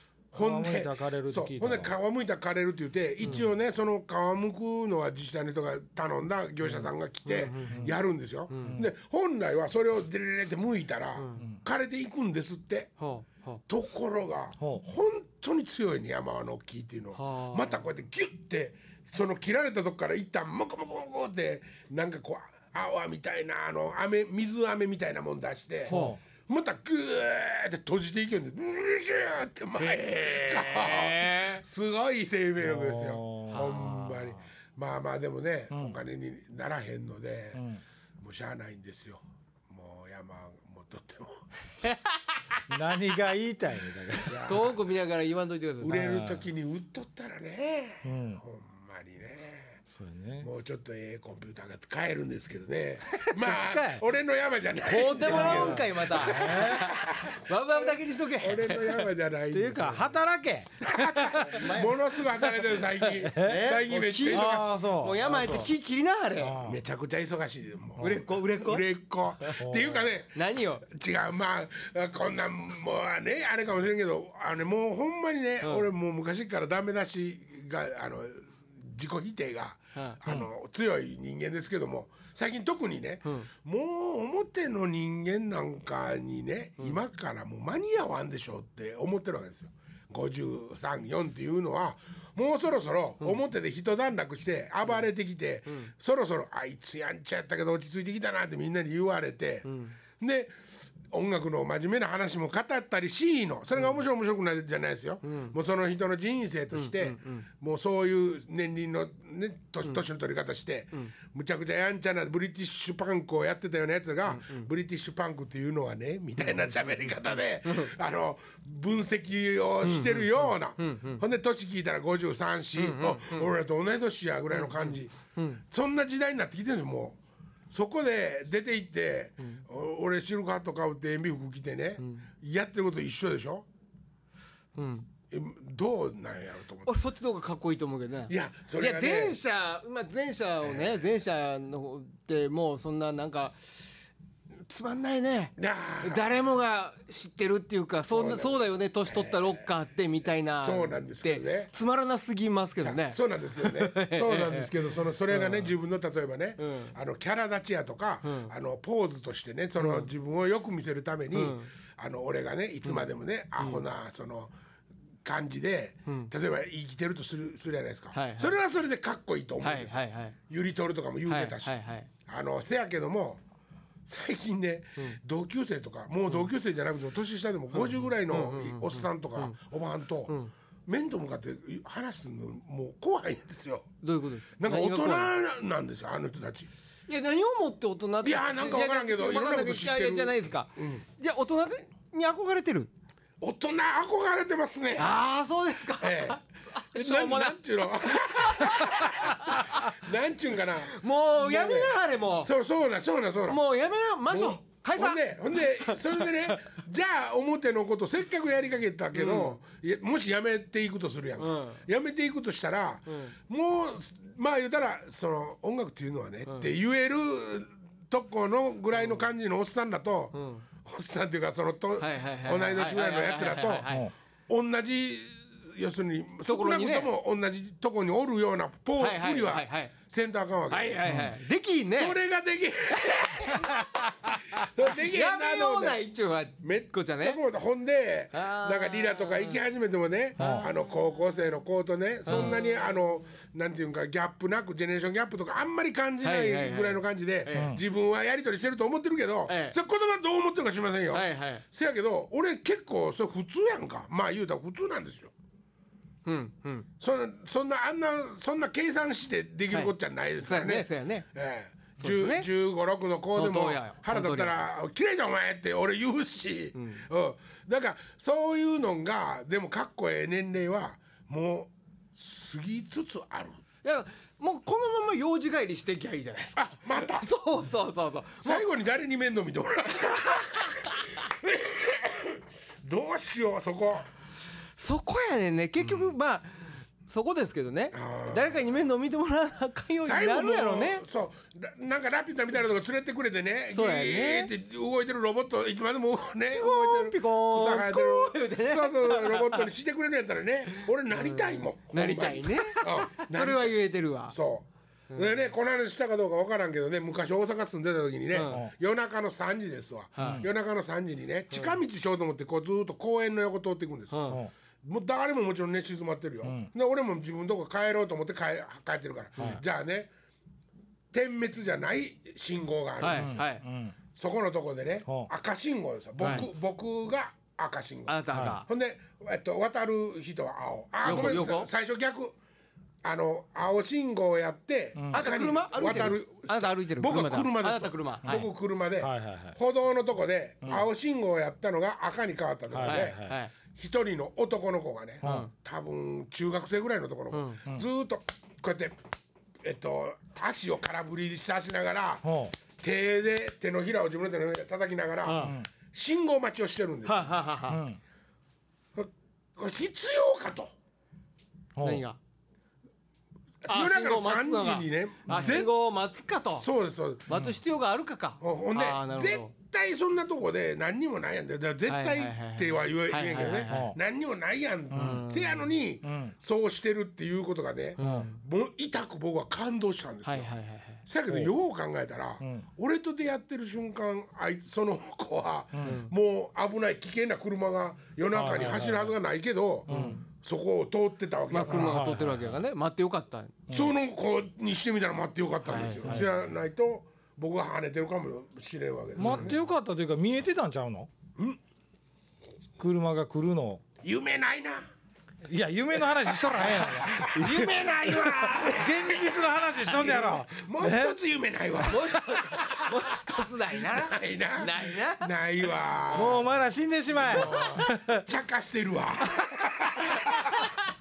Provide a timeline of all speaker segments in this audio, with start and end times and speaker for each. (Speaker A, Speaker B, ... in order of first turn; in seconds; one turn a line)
Speaker A: 0.3-1.9
Speaker B: 0.3-12.9
Speaker C: 3.2-3.5
Speaker C: 6.7-8.0
Speaker A: 7.7-8.0
Speaker C: 8.5-8.8
Speaker C: 11.2-11.4
Speaker C: 13.0-13.6
Speaker B: 13.7-37.6
Speaker A: 14.6-14.8
Speaker C: 17.1-17.8
Speaker A: 25.9-26.2
Speaker C: 25.9-26.2
Speaker C: 29.8-31.6
Speaker A: 32.6-34.1
Speaker C: 33.5-34.2
Speaker A: 35.7-36.0
Speaker A: 37.6-37.8
Speaker B: 38.2-41.5
Speaker A: 42.7-44.7
Speaker B: 44.2-44.8
Speaker C: 44.5-46.1
Speaker B: 45.8-49.8
Speaker A: 45.9-46.5
Speaker A: 48.0-48.4
Speaker A: 49.9-50.5
Speaker B: 50.4-60.2
Speaker C: 53.1-53.4
Speaker A: 53.4-54.0
Speaker C: 54.8-59.1
Speaker A: 55.3-56.9
Speaker A: 59.5-61.7
Speaker B: 60.8-65.6
Speaker C: 61.3-62.0
Speaker A: 63.1-63.6
Speaker C: 63.4-66.6
Speaker A: 64.2-65.7
Speaker A: 66.4-66.8
Speaker B: 66.6-99.7
Speaker C: 68.0-68.8
Speaker A: 69.6-70.1
Speaker C: 70.3-70.8
Speaker C: 99.7-100.0
Speaker B: 100.2-127.2
Speaker C: 105.2-105.6
Speaker C: 106.7-107.5
Speaker C: 114.3-114.7
Speaker C: 117.7-117.9
Speaker C: 119.8-121.2
Speaker C: 122.8-123.5
Speaker C: 124.5-125.6
Speaker B: 127.7-133.7
Speaker C: 132.0-132.3
Speaker C: 134.8-135.1
Speaker B: 135.3-136.9
Speaker C: 136.9-143.9
Speaker B: 138.3-139.4
Speaker B: 140.6-141.1
Speaker C: 144.7-154.7
Speaker B: 145.6-146.3
Speaker B: 148.1-149.7
Speaker B: 150.6-151.7
Speaker B: 152.8-164.5
Speaker C: 155.3-155.7
Speaker C: 156.6-156.9
Speaker C: 158.2-158.5
Speaker C: 159.8-160.1
Speaker C: 161.3-161.7
Speaker C: 163.6-163.8
Speaker B: 165.2-170.0
Speaker C: 166.1-166.3
Speaker C: 168.1-168.6
Speaker C: 169.6-170.4
Speaker B: 170.5-171.8
Speaker C: 171.3-172.1
Speaker B: 172.3-173.4
Speaker B: 174.1-183.9
Speaker C: 177.7-179.6
Speaker C: 184.0-185.3
Speaker B: 184.6-186.7
Speaker C: 187.1-192.9
Speaker B: 188.2-191.0
Speaker B: 193.4-195.2
Speaker C: 195.0-200.0
Speaker B: 196.0-196.4
Speaker B: 196.9-203.6
Speaker C: 200.9-202.5
Speaker C: 203.5-206.6
Speaker B: 204.3-223.9
Speaker C: 209.1-209.6
Speaker C: 211.4-211.8
Speaker C: 213.1-213.4
Speaker C: 218.9-219.2
Speaker C: 220.3-220.7
Speaker C: 222.0-224.1
Speaker B: 224.5-231.1
Speaker C: 226.4-227.1
Speaker C: 229.0-229.9
Speaker C: 230.7-232.2
Speaker A: 231.1-231.3
Speaker B: 231.9-236.0
Speaker C: 233.1-237.4
Speaker B: 236.6-255.3
Speaker C: 238.3-239.6
Speaker A: 240.4-240.7
Speaker C: 240.4-240.7
Speaker C: 242.3-242.6
Speaker C: 246.2-247.8
Speaker A: 247.5-247.8
Speaker C: 249.5-249.8
Speaker C: 251.1-251.6
Speaker C: 256.2-256.9
Speaker B: 257.0-273.6
Speaker C: 259.7-261.3
Speaker C: 262.0-262.5
Speaker C: 263.3-264.6
Speaker C: 266.8-267.1
Speaker C: 273.8-278.7
Speaker B: 276.6-277.3
Speaker B: 278.4-284.1
Speaker C: 284.8-291.0
Speaker B: 285.8-286.1
Speaker B: 287.9-288.7
Speaker B: 290.0-320.1
Speaker C: 293.7-294.5
Speaker C: 296.5-299.7
Speaker C: 300.7-304.4
Speaker C: 308.3-308.6
Speaker C: 310.2-310.5
Speaker A: 310.2-310.5
Speaker C: 314.1-314.4
Speaker A: 316.4-316.7
Speaker B: 321.1-323.4
Speaker C: 323.0-323.6
Speaker A: 323.1-324.0
Speaker B: 324.1-332.4
Speaker C: 326.2-326.5
Speaker C: 328.1-328.7
Speaker A: 328.3-328.6
Speaker C: 331.0-331.7
Speaker B: 333.0-343.2
Speaker A: 335.0-335.3
Speaker C: 335.1-338.5
Speaker A: 338.2-339.6
Speaker A: 342.7-343.3
Speaker C: 342.8-343.5
Speaker B: 343.7-349.0
Speaker A: 345.2-345.5
Speaker C: 345.2-345.5
Speaker C: 347.3-347.6
Speaker B: 349.6-357.3
Speaker A: 352.2-352.5
Speaker C: 355.2-355.6
Speaker A: 355.4-355.7
Speaker C: 357.1-357.8
Speaker A: 357.7-358.0
Speaker B: 358.9-360.7
Speaker A: 361.8-362.0
Speaker C: 361.8-362.2
Speaker B: 363.6-365.7
Speaker C: 363.7-366.7
Speaker A: 365.3-365.6
Speaker B: 366.6-367.4
Speaker C: 367.3-369.5
Speaker A: 367.3-367.6
Speaker B: 368.4-380.5
Speaker C: 371.9-374.0
Speaker A: 373.7-374.0
Speaker A: 374.9-375.3
Speaker C: 374.9-375.7
Speaker A: 376.0-376.3
Speaker A: 378.0-378.3
Speaker C: 378.0-378.4
Speaker C: 380.2-381.0
Speaker B: 381.1-392.1
Speaker A: 382.4-382.7
Speaker A: 385.8-386.0
Speaker C: 385.8-386.1
Speaker A: 388.3-389.1
Speaker A: 389.9-390.2
Speaker C: 389.9-390.2
Speaker C: 391.5-393.6
Speaker A: 391.7-392.6
Speaker B: 393.7-399.6
Speaker C: 395.7-396.3
Speaker A: 396.0-396.3
Speaker C: 399.2-399.6
Speaker A: 399.2-401.1
Speaker A: 402.8-403.8
Speaker B: 404.0-404.9
Speaker A: 405.4-411.2
Speaker B: 406.2-416.5
Speaker C: 407.1-408.9
Speaker C: 411.8-415.3
Speaker A: 416.1-418.2
Speaker B: 417.2-420.5
Speaker C: 417.4-417.8
Speaker C: 419.9-420.8